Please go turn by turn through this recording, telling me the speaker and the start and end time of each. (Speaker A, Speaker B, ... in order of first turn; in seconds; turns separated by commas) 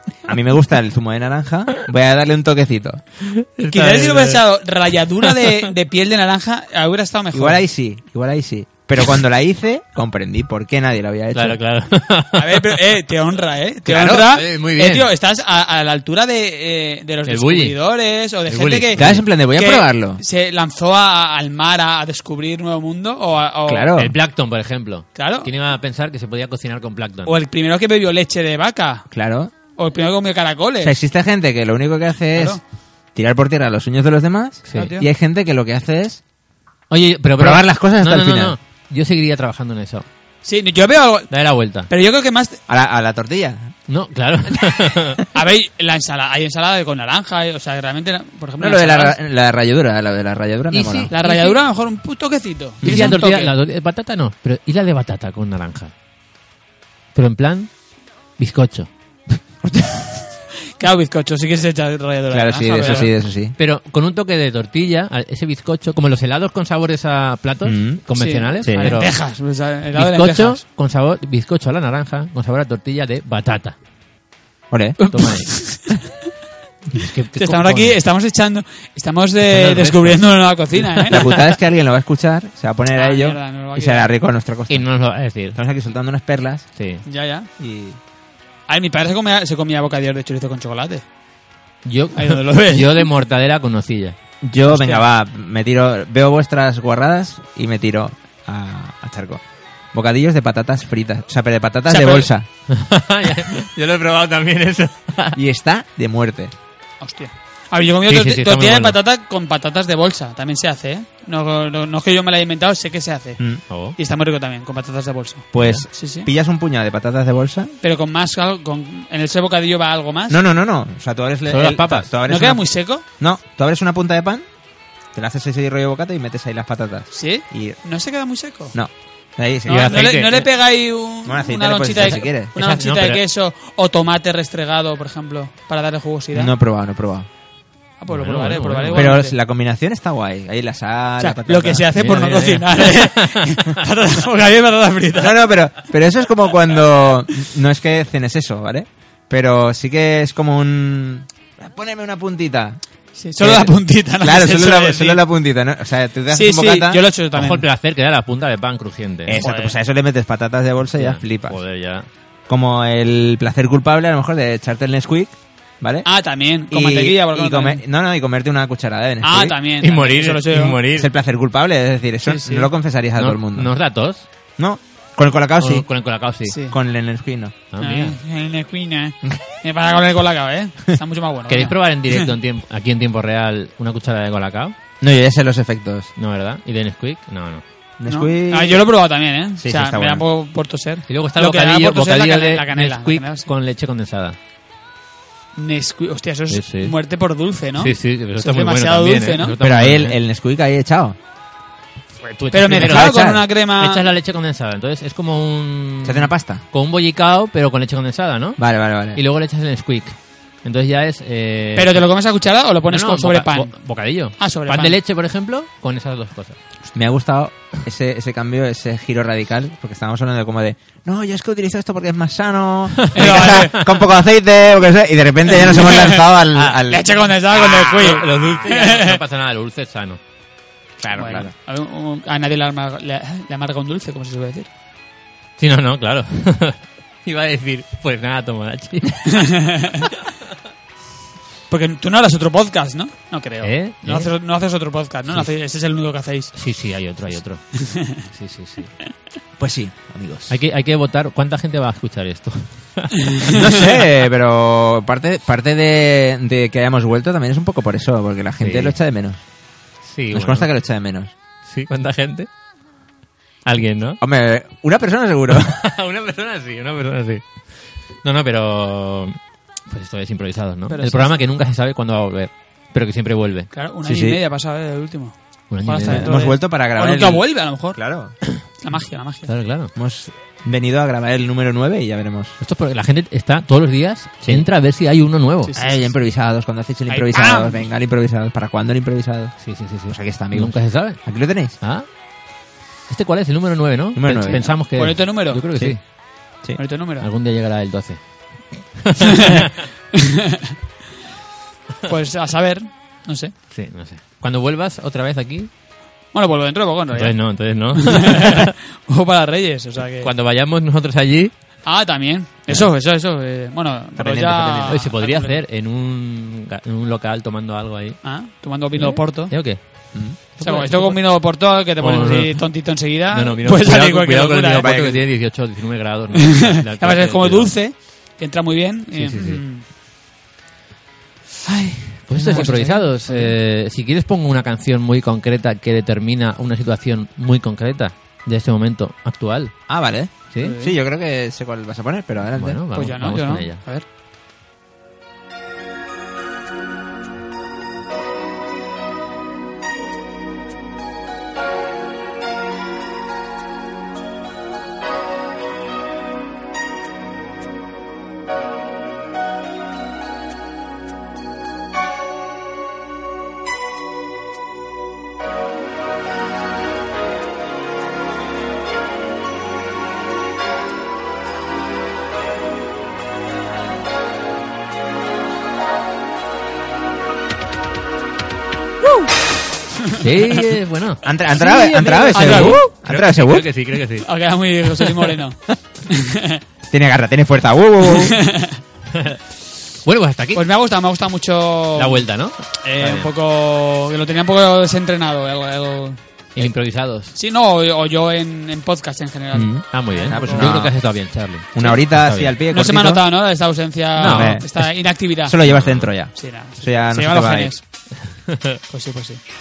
Speaker A: 0.3-3.0, Speaker B: 3.2-4.4, Speaker C: 3.7-7.6, Speaker B: 5.2-5.7, Speaker A: 7.3-11.6, Speaker B: 11.3-12.8, Speaker C: 12.3-23.9, Speaker A: 13.9-14.2, Speaker B: 13.9-15.1, Speaker B: 17.3-17.8, Speaker B: 18.5-19.2, Speaker A: 18.9-20.2, Speaker A: 23.7-24.1, Speaker B: 23.9-27.3, Speaker C: 25.1-25.5, Speaker C: 27.2-29.1, Speaker A: 29.1-29.5, Speaker C: 29.8-30.9, Speaker A: 30.8-32.6, Speaker C: 32.3-32.6, Speaker A: 33.1-36.2, Speaker B: 34.7-35.0, Speaker C: 34.7-35.1, Speaker B: 36.9-40.1, Speaker A: 37.4-38.6, Speaker C: 40.4-41.3, Speaker B: 41.3-41.9, Speaker C: 41.9-42.6, Speaker A: 42.7-43.7, Speaker B: 43.9-45.2, Speaker C: 45.3-49.2, Speaker A: 48.6-51.1, Speaker B: 50.7-51.6, Speaker C: 51.1-53.5, Speaker A: 52.8-53.2, Speaker B: 52.8-55.9, Speaker B: 57.1-57.7, Speaker B: 58.4-59.4, Speaker C: 60.8-63.1, Speaker A: 62.3-63.5, Speaker B: 62.8-69.1, Speaker A: 67.6-68.0, Speaker C: 68.1-70.6, Speaker A: 68.6-69.0, Speaker B: 69.9-73.8, Speaker A: 74.7-75.0, Speaker C: 75.0-76.0, Speaker B: 75.1-75.6, Speaker B: 76.9-78.0, Speaker C: 77.3-81.3, Speaker B: 79.4-81.4, Speaker A: 81.1-84.9, Speaker C: 82.9-84.1, Speaker B: 84.7-85.6, Speaker A: 85.5-86.7, Speaker B: 86.8-87.0, Speaker C: 87.0-87.5, Speaker A: 87.6-88.0, Speaker C: 88.7-91.0, Speaker B: 91.8-94.2, Speaker C: 92.2-93.1, Speaker A: 94.4-99.4, Speaker C: 94.7-95.0, Speaker A: 99.9-102.5, Speaker C: 101.9-102.3, Speaker B: 102.7-105.4, Speaker A: 105.3-106.5, Speaker C: 107.0-113.4, Speaker B: 108.0-109.0, Speaker B: 113.7-114.0, Speaker C: 114.0-116.3, Speaker A: 115.5-117.7, Speaker C: 117.8-120.4, Speaker A: 120.3-124.4, Speaker B: 121.5-122.1, Speaker C: 122.2-123.0, Speaker A: 125.1-127.8, Speaker C: 127.1-128.8, Speaker A: 128.7-130.0, Speaker C: 129.7-136.5, Speaker B: 129.7-130.5, Speaker A: 131.2-132.5, Speaker B: 132.0-133.2, Speaker A: 136.3-137.3, Speaker C: 138.0-139.3, Speaker B: 138.1-139.2, Speaker A: 138.9-141.9, Speaker C: 141.2-145.4, Speaker B: 141.9-143.7, Speaker A: 145.1-152.8, Speaker C: 153.2-155.2, Speaker A: 153.4-157.0, Speaker C: 156.3-157.7, Speaker B: 157.3-159.4, Speaker A: 159.2-161.6, Speaker C: 159.3-159.8, Speaker B: 161.0-162.1, Speaker A: 162.5-166.1, Speaker C: 166.0-167.8, Speaker A: 166.7-169.6, Speaker C: 169.2-170.8, Speaker B: 169.8-171.1, Speaker A: 170.9-173.7, Speaker C: 172.2-172.7, Speaker B: 173.2-174.3, Speaker A: 174.6-175.8, Speaker B: 175.6-176.6, Speaker C: 176.4-176.8, Speaker A: 176.7-177.6, Speaker B: 177.7-178.2, Speaker C: 177.8-182.3, Speaker B: 181.5-184.8, Speaker A: 185.0-186.1, Speaker B: 186.2-187.6, Speaker A: 188.0-188.8, Speaker C: 188.1-193.5, Speaker A: 189.6-190.2, Speaker B: 191.1-194.4, Speaker C: 195.6-199.6, Speaker B: 196.5-196.9, Speaker B: 197.8-200.2, Speaker A: 199.6-201.2, Speaker B: 202.2-212.0, Speaker C: 202.5-204.1, Speaker A: 202.7-203.4, Speaker A: 206.0-206.6, Speaker A: 208.6-209.2, Speaker C: 211.8-213.7, Speaker B: 212.9-216.6, Speaker C: 214.4-215.0, Speaker A: 216.9-227.2, Speaker B: 223.0-223.9, Speaker C: 223.1-223.8, Speaker C: 225.6-226.2, Speaker B: 226.5-226.8, Speaker C: 226.9-229.2, Speaker B: 227.5-230.2, Speaker A: 231.0-231.5, Speaker C: 231.1-234.7, Speaker B: 235.6-239.5, Speaker C: 239.3-240.1, Speaker C: 241.7-246.5, Speaker B: 243.6-244.3, Speaker B: 246.5-247.6, Speaker C: 247.8-248.2, Speaker B: 248.2-248.9, Speaker A: 249.6-250.6, Speaker B: 250.5-253.6, Speaker C: 253.3-253.6, Speaker A: 253.5-259.4, Speaker B: 258.6-259.0, Speaker B: 260.0-260.7, Speaker A: 260.3-261.3, Speaker B: 261.6-262.5, Speaker B: 263.6-264.2, Speaker A: 264.2-265.8, Speaker B: 265.6-267.6, Speaker B: 268.2-269.4, Speaker B: 269.9-273.7, Speaker C: 270.9-271.3, Speaker C: 273.7-278.0, Speaker A: 274.0-274.4, Speaker B: 275.7-276.3, Speaker A: 276.1-277.4, Speaker A: 277.9-278.4, Speaker C: 278.8-279.5, Speaker B: 279.5-279.9, Speaker A: 279.9-282.6, Speaker B: 282.6-285.7, Speaker C: 285.7-286.1, Speaker A: 285.7-289.6, Speaker C: 287.1-287.8, Speaker B: 289.6-291.2, Speaker A: 290.1-291.8, Speaker B: 291.8-292.1, Speaker B: 293.1-296.0, Speaker A: 294.1-294.6, Speaker C: 294.5-295.6, Speaker C: 296.8-297.2, Speaker B: 297.2-299.7, Speaker C: 299.2-300.7, Speaker C: 302.0-303.5, Speaker B: 303.7-305.7, Speaker C: 306.3-310.3, Speaker B: 307.1-308.7, Speaker B: 310.2-311.5, Speaker C: 311.9-315.6, Speaker A: 314.2-314.9, Speaker B: 314.2-318.2, Speaker C: 318.2-319.5, Speaker B: 318.9-319.8, Speaker A: 320.1-320.4, Speaker B: 320.4-321.3, Speaker C: 320.6-324.9, Speaker B: 322.0-322.7, Speaker B: 323.3-327.7, Speaker A: 324.8-325.3, Speaker C: 326.4-329.8, Speaker B: 329.1-329.6, Speaker B: 331.7-339.8, Speaker A: 331.7-332.9, Speaker C: 332.5-333.5, Speaker A: 339.9-342.8, Speaker C: 340.6-340.9, Speaker B: 342.5-343.8, Speaker C: 342.9-344.0, Speaker B: 380.1-381.2, Speaker A: 381.2-383.6, Speaker C: 381.6-382.9, Speaker B: 381.8-384.2, Speaker C: 384.2-386.6, Speaker A: 386.9-388.4, Speaker C: 388.1-388.8, Speaker B: 389.1-389.4, Speaker B: 390.0-390.6, Speaker C: 390.5-392.2, Speaker B: 392.0-393.3, Speaker C: 392.8-396.2, Speaker B: 396.5-397.4, Speaker C: 397.3-400.7, Speaker A: 399.5-401.0, Speaker B: 399.9-402.5, Speaker A: 401.7-403.2, Speaker C: 402.7-405.6, Speaker B: 404.2-404.9, Speaker A: 404.2-404.7, Speaker A: 405.4-407.7, Speaker B: 405.6-406.1, Speaker C: 406.3-407.8, Speaker B: 408.3-408.8, Speaker C: 408.9-409.4